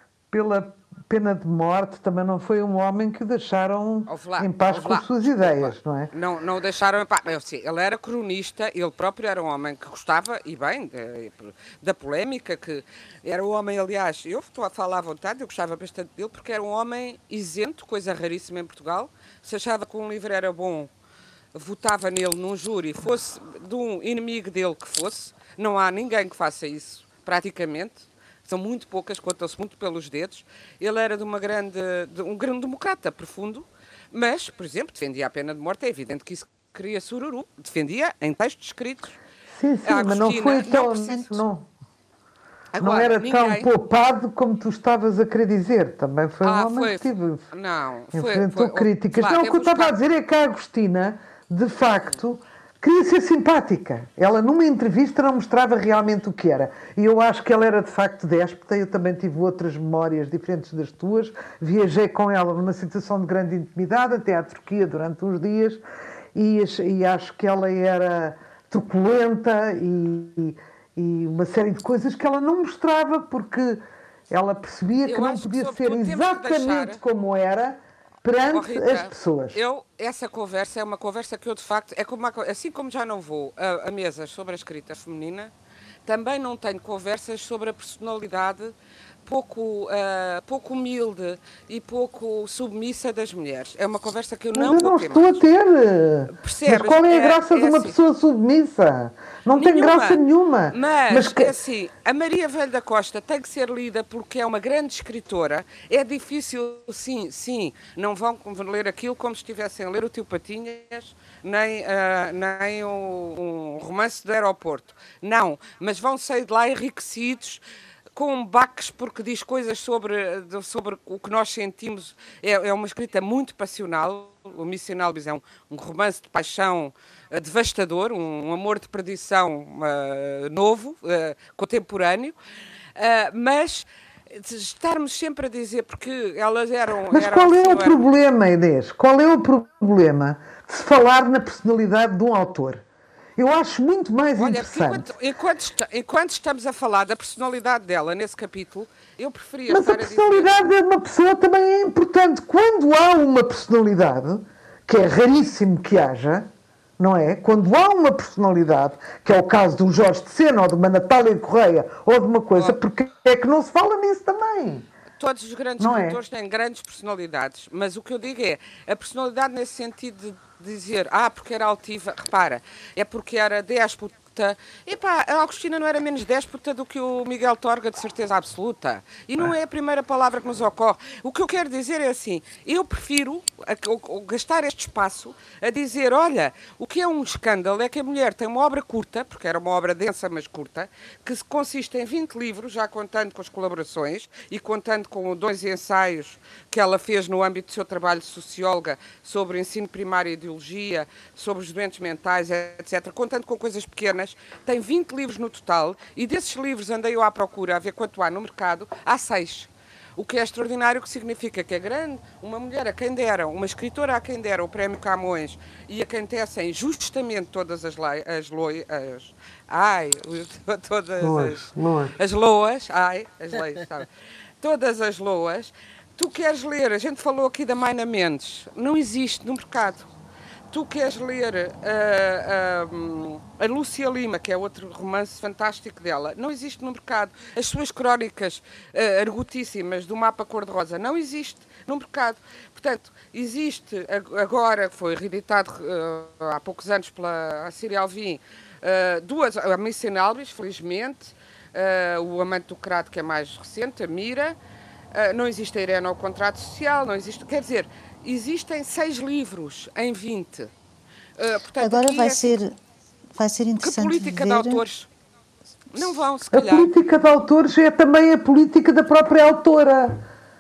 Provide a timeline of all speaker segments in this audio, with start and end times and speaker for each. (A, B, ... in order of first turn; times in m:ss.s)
0:00.3-0:06.1 A
0:04.1-0:20.9 B
0:21.5-0:39.2 B
0:39.5-0:41.7 A
0:39.8-0:41.4 B
0:42.7-0:43.7 B
0:42.8-0:47.4 A
0:46.4-0:50.0 B
0:48.1-1:05.8 A
1:06.4-1:19.6 A
1:15.0-1:17.0 B
1:18.5-1:25.5 B
1:26.1-1:35.4 B
1:34.6-1:41.5 A
1:36.3-1:38.0 B
1:39.6-1:57.6 B
1:58.2-2:12.4 B
2:13.0-2:18.0 B
2:17.1-2:22.8 A
2:23.4-2:25.1 A
2:24.4-2:30.5 B
2:29.7-2:36.5 A
2:37.0-2:44.9 A
2:42.5-2:42.8 B
2:45.2-3:44.1 B
2:45.8-2:46.2 A
3:41.2-3:42.2 A
3:44.6-3:50.1 B
3:50.7-4:14.6 B
4:15.1-4:20.7 B
4:21.4-4:22.6 B
4:21.8-4:22.8 C
4:23.4-4:24.8 C
4:23.8-4:25.1 B
4:25.9-4:26.9 B
4:26.5-4:30.2 A